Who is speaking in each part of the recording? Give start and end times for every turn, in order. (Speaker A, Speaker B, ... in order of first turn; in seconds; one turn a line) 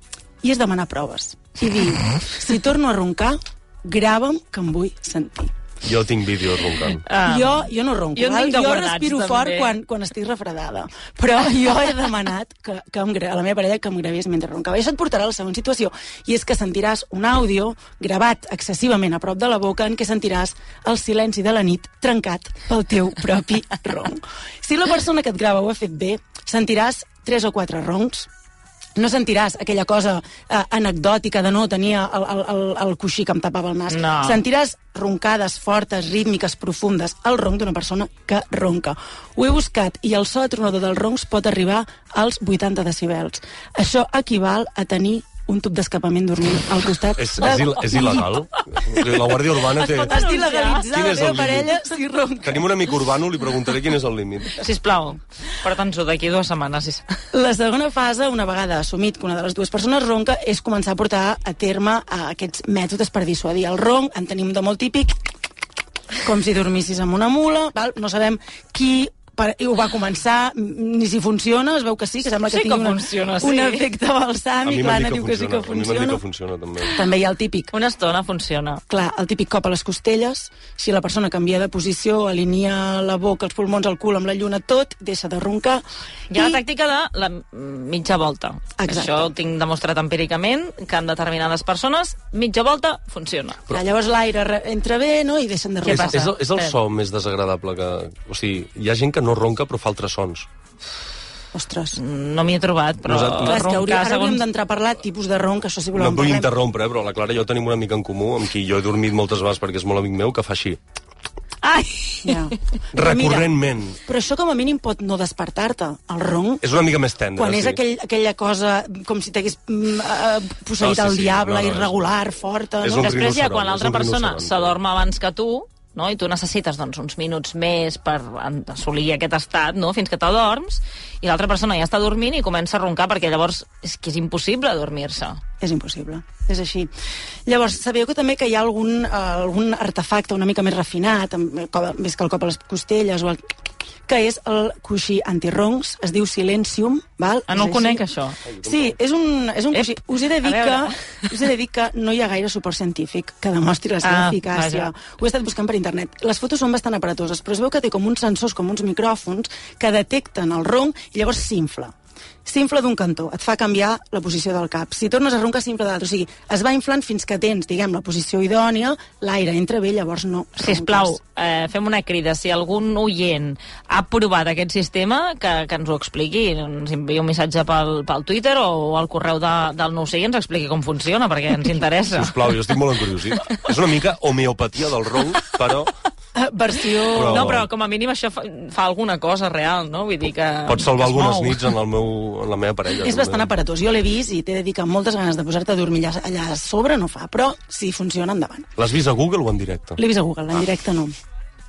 Speaker A: 0.4-5.5
Speaker B: 5.8-7.0
Speaker C: 7.0-9.8
Speaker A: 7.2-28.3
Speaker A: 29.0-48.3
Speaker C: 33.9-34.4
Speaker B: 47.2-50.2
Speaker C: 47.4-48.2
Speaker A: 48.9-49.3
Speaker C: 49.8-50.9
Speaker A: 49.9-52.7
Speaker B: 50.9-51.7
Speaker B: 52.4-54.6
Speaker C: 54.5-57.1
Speaker A: 57.3-65.2
Speaker A: 66.2-76.2
Speaker C: 72.5-73.9
Speaker B: 74.6-77.0
Speaker A: 76.9-77.7
Speaker C: 77.7-78.8
Speaker A: 78.9-86.6
Speaker C: 86.3-93.7
Speaker A: 88.8-89.3
Speaker A: 93.7-96.2
Speaker C: 95.8-96.8
Speaker B: 95.9-100.5
Speaker A: 101.5-102.0
Speaker C: 101.9-104.4
Speaker B: 103.0-103.6
Speaker A: 103.4-106.5
Speaker B: 105.9-110.8
Speaker C: 111.6-112.5
Speaker A: 112.2-113.5
Speaker B: 112.9-114.0
Speaker A: 114.0-116.6
Speaker B: 116.6-117.8
Speaker A: 117.3-123.1
Speaker B: 120.8-122.1
Speaker B: 122.8-124.8
Speaker C: 123.0-135.4
Speaker A: 135.6-136.9
Speaker A: 137.5-143.4
Speaker A: 144.1-148.0
Speaker C: 147.5-148.4
Speaker B: 148.5-148.9
Speaker A: 148.6-161.9
Speaker C: 149.7-151.2
Speaker C: 154.0-154.9
Speaker A: 162.5-171.2
Speaker C: 170.6-182.4
Speaker B: 182.1-185.9
Speaker A: 186.3-187.6
Speaker C: 187.0-191.7
Speaker B: 187.1-187.7
Speaker B: 190.7-193.5
Speaker A: 193.0-198.7
Speaker B: 198.8-200.0
Speaker A: 200.0-201.1